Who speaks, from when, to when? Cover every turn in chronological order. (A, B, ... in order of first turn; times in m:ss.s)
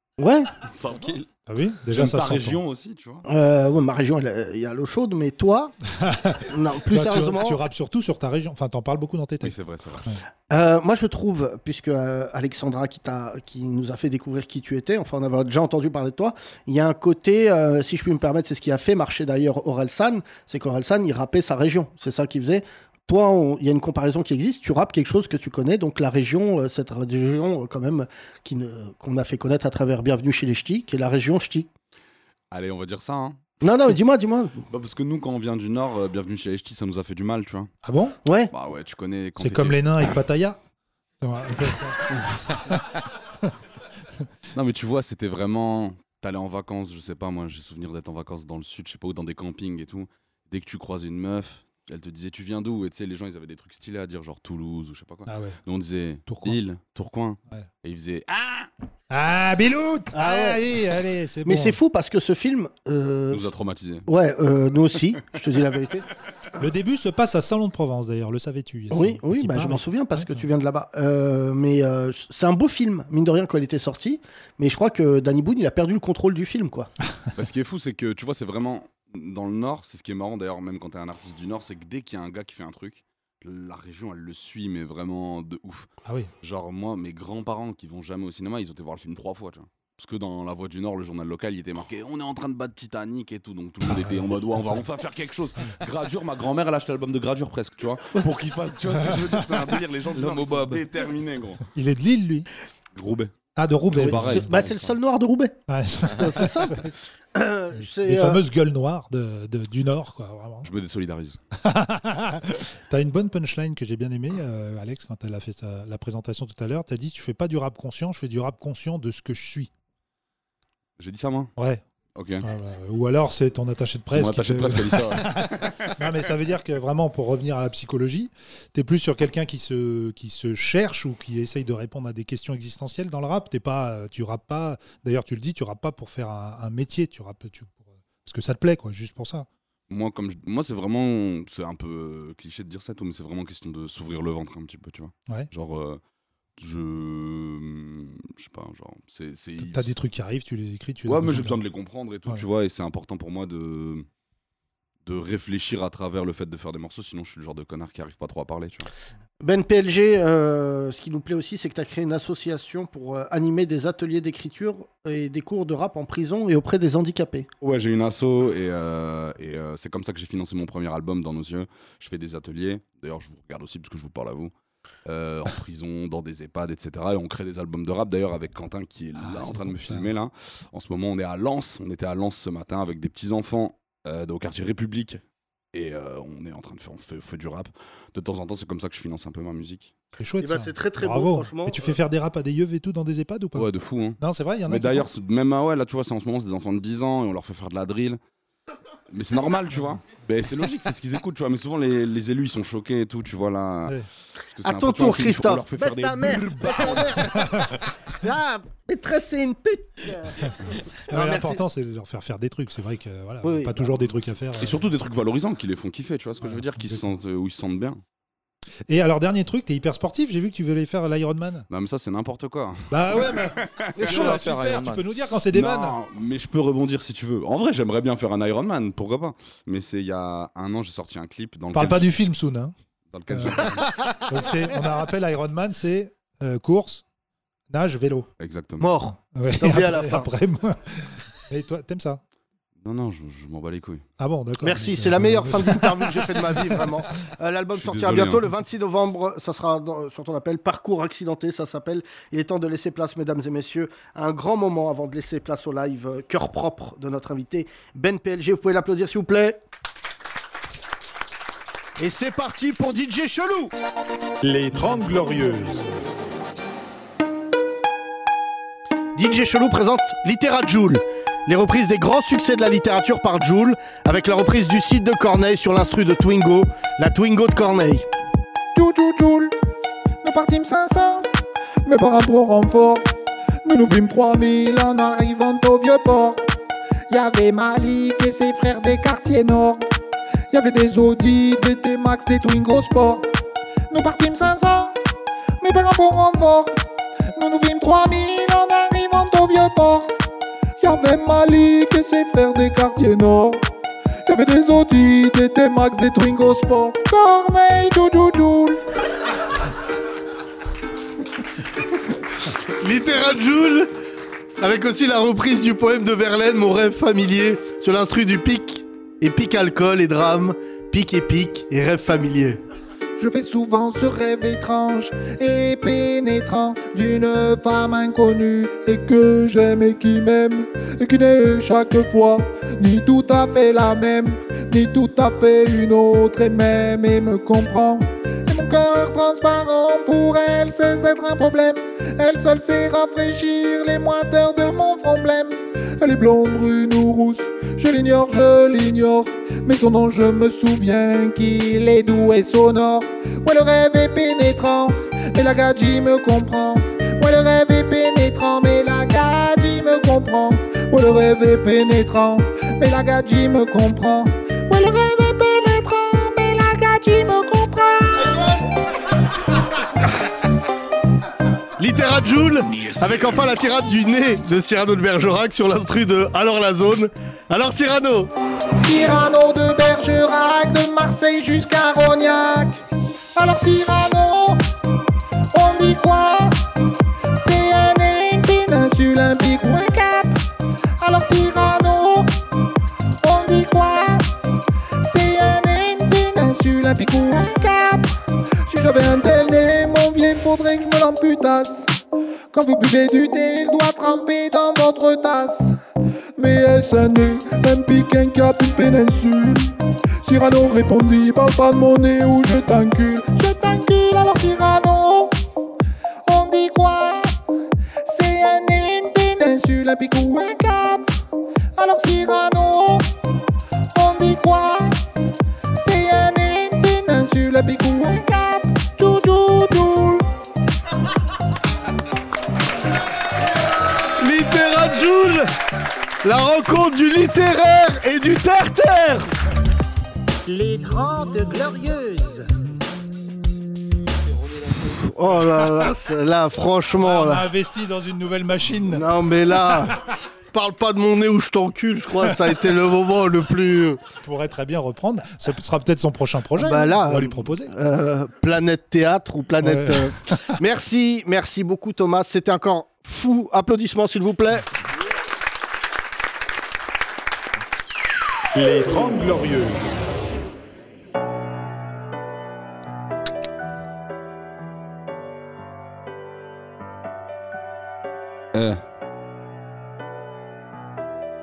0:00.2-0:00.5 A
0:00.7-0:01.2 B
0:01.5-0:02.6 C
0:01.9-0:03.2 B
0:03.2-0:05.7 A
0:06.1-0:10.2 C
0:06.5-0:07.6 A
0:09.4-0:10.0 B
0:10.5-0:31.7 A
0:32.5-0:33.4 B
0:33.6-0:34.6 A
0:34.7-0:37.7 B
0:37.8-0:38.2 C
0:38.2-0:38.5 A
0:38.5-0:40.1 B
0:39.4-0:40.6 C
0:41.2-0:42.8 C
0:44.6-0:58.7 B
0:55.3-0:55.6 C
0:56.3-0:56.6 C
0:59.1-1:01.8 C
1:00.1-1:00.6 A
1:01.4-1:03.5 A
1:03.3-1:04.0 B
1:04.1-1:06.1 A
1:06.6-1:10.5 C
1:08.9-1:16.9 A
1:17.4-1:25.9 B
1:26.1-1:26.3 C
1:26.4-1:41.6 B
1:34.6-1:34.8 C
1:41.7-1:42.5 C
1:43.0-1:43.3 B
1:43.6-1:44.5 C
1:43.9-1:45.6 A
1:44.0-1:44.9 B
1:45.7-1:46.9 C
1:46.1-1:48.4 A
1:48.0-1:50.7 C
1:50.6-1:51.4 B
1:51.6-1:59.7 C
2:01.0-2:01.5 B
2:01.6-2:01.8 C
2:02.1-2:02.4 B
2:02.4-2:19.5 C
2:04.1-2:05.9 B
2:19.9-2:26.0 B
2:26.6-2:29.9 B
2:29.6-2:31.6 C
2:31.1-2:34.0 B
2:35.0-2:38.9 B
2:39.4-2:47.5 A
2:47.6-2:54.5 B
2:55.1-3:05.2 B
2:59.1-3:00.1 C
3:05.7-3:09.9 B
3:10.2-3:15.1 C
3:10.4-3:11.9 A
3:13.6-3:14.2 B
3:14.7-3:18.2 B
3:19.1-3:23.9 B
3:24.6-3:26.7 B
3:24.6-3:27.7 A
3:28.2-3:30.6 A
3:31.1-3:31.6 A
3:31.1-3:34.9 C
3:33.4-3:34.1 A
3:34.6-3:38.0 B
3:36.4-3:37.0 C
3:38.9-3:41.7 C
3:41.7-3:42.8 B
3:42.9-3:46.0 C
3:43.8-3:44.2 B
3:45.5-3:52.0 B
3:51.7-3:52.7 C
3:53.1-3:53.8 B
3:53.3-3:57.0 C
3:57.7-3:58.3 C
3:58.4-3:58.9 B
3:58.8-4:00.3 A
3:59.1-4:02.2 C
4:02.8-4:04.0 B
4:04.2-4:06.8 C
4:04.6-4:19.6 A
4:07.9-4:08.4 B
4:22.0-4:23.7 A
4:24.4-4:25.9 D
4:29.1-4:38.1 A
4:38.8-4:39.5 E
4:40.2-4:41.3 E
4:41.8-4:43.1 E
4:43.6-4:46.4 E
4:47.1-4:49.8 E
4:50.5-4:53.2 E
4:53.9-4:54.9 E
4:55.6-4:56.8 E
4:57.3-5:00.1 E
5:00.8-5:03.7 E
5:04.3-5:08.8 E
5:12.8-5:13.9 A
5:14.6-5:22.6 A
5:23.2-6:08.5 E
6:11.8-6:18.3 A
6:18.8-6:22.8 E
6:23.4-6:24.6 E
6:25.5-6:26.6 E
6:27.4-6:30.4 E
6:31.0-6:32.3 E
6:33.2-6:34.3 E
6:35.0-6:38.1 E
6:38.7-6:42.0 E
6:42.5-6:45.8 E
6:46.4-6:55.3 E
6:56.3-6:57.4 E
6:58.0-7:01.1 E
7:01.8-7:03.1 E
7:04.0-7:05.0 E
7:05.8-7:10.3 E
7:14.2-7:15.5 A
7:16.2-7:19.3 A
7:20.5-7:22.5 F
7:24.8-7:27.5 A
7:27.0-7:29.0 C
7:28.9-7:30.0 A
7:30.5-7:34.0 A
7:34.2-7:37.7 C
7:36.6-7:44.7 A
7:39.6-7:40.0 C
7:48.6-7:49.9 D